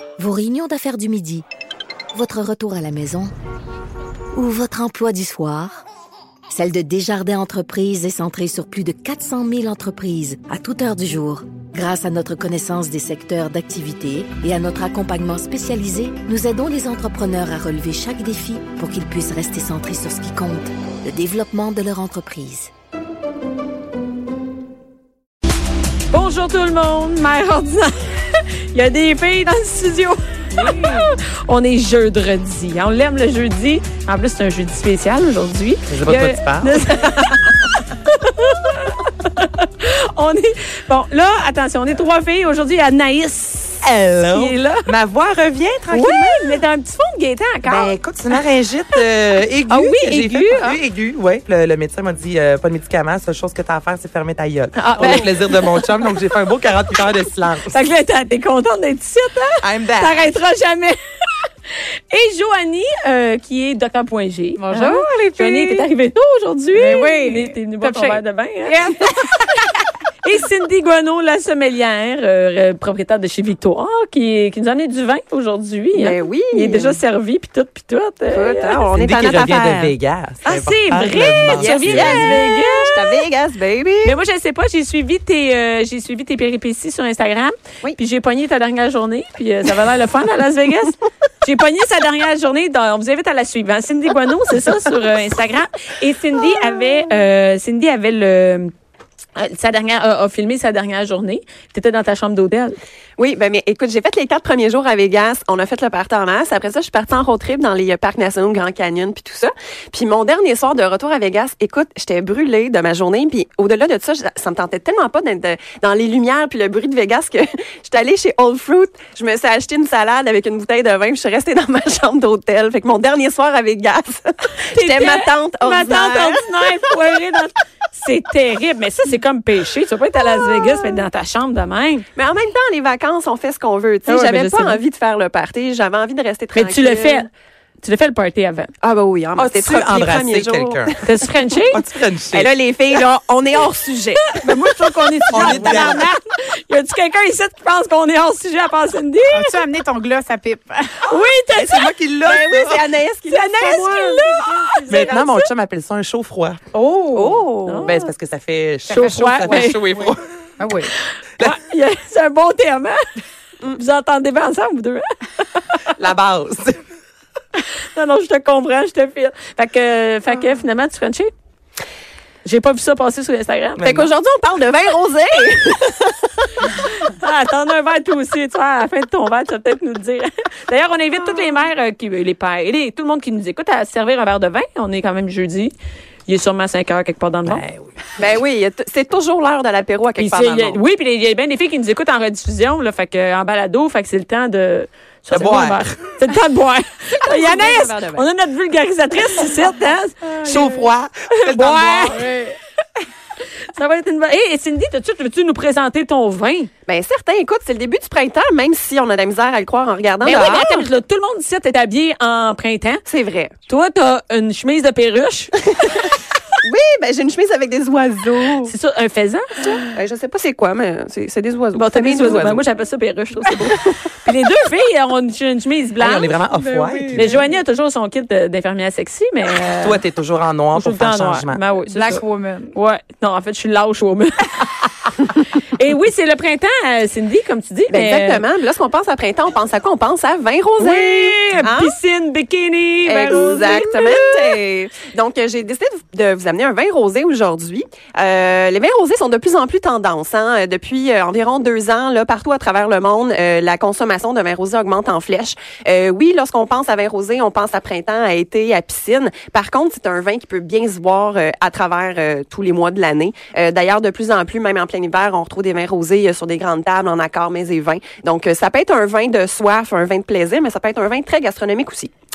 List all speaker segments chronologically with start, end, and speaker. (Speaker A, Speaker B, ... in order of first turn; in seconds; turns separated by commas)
Speaker A: 0.2-1.5, Speaker A: 2.1-3.3, Speaker A: 4.3-5.8, Speaker A: 6.5-22.7, Speaker B: 26.1-44.9, Speaker C: 35.9-36.8, Speaker C: 43.8-46.5, Speaker B: 45.9-48.0, Speaker C: 47.6-57.8, Speaker B: 49.7-50.8, Speaker B: 54.8-56.1, Speaker B: 57.7-61.0, Speaker C: 59.6-60.3, Speaker B: 61.7-69.0, Speaker D: 64.6-65.8, Speaker D: 66.7-69.0, Speaker B: 70.2-78.9, Speaker E: 75.9-77.0, Speaker E: 78.3-79.9, Speaker C: 78.9-82.4, Speaker B: 80.5-83.2, Speaker E: 81.4-84.2, Speaker B: 84.0-98.7, Speaker B: 99.4-102.8, Speaker E: 103.2-126.5, Speaker B: 124.7-132.1, Speaker E: 132.2-137.3, Speaker B: 134.1-134.8, Speaker B: 136.5-137.3, Speaker B: 137.8-138.7, Speaker E: 138.8-141.6, Speaker C: 139.5-141.0, Speaker B: 141.1-141.8, Speaker C: 141.7-142.5, Speaker E: 142.3-144.3, Speaker B: 144.2-149.7, Speaker C: 145.3-146.0, Speaker E: 145.4-145.9, Speaker D: 149.3-151.1, Speaker B: 151.0-151.9, Speaker C: 151.6-152.8, Speaker E: 152.2-154.3, Speaker B: 153.3-155.5, Speaker C: 154.9-156.6, Speaker D: 156.7-157.4, Speaker E: 157.1-157.9, Speaker B: 157.7-158.1, Speaker C: 157.8-160.2, Speaker D: 158.9-159.7, Speaker B: 158.9-160.2, Speaker D: 160.6-160.9, Speaker B: 160.9-163.0, Speaker B: 163.7-165.8, Speaker C: 166.0-166.8, Speaker B: 167.6-171.3, Speaker B: 172.4-174.1, Speaker C: 173.8-174.1, Speaker E: 173.8-176.2, Speaker B: 176.8-185.7, Speaker B: 186.3-187.6, Speaker C: 187.5-187.8, Speaker E: 188.2-190.8, Speaker B: 190.2-202.6, Speaker C: 195.3-195.9, Speaker E: 197.1-198.3, Speaker C: 200.4-202.3, Speaker B: 203.7-206.7, Speaker E: 206.9-210.9, Speaker B: 210.2-213.0, Speaker E: 213.1-213.5, Speaker B: 213.7-215.6, Speaker E: 216.6-218.7, Speaker B: 218.7-219.9, Speaker E: 219.9-222.7, Speaker B: 221.7-226.3, Speaker C: 226.0-227.4, Speaker D: 226.5-227.1, Speaker B: 227.1-230.0, Speaker C: 229.8-231.6, Speaker B: 230.8-232.2, Speaker D: 231.9-232.7, Speaker B: 232.7-234.8, Speaker B: 235.4-238.4, Speaker E: 237.9-241.9, Speaker B: 240.8-244.6, Speaker E: 243.1-272.1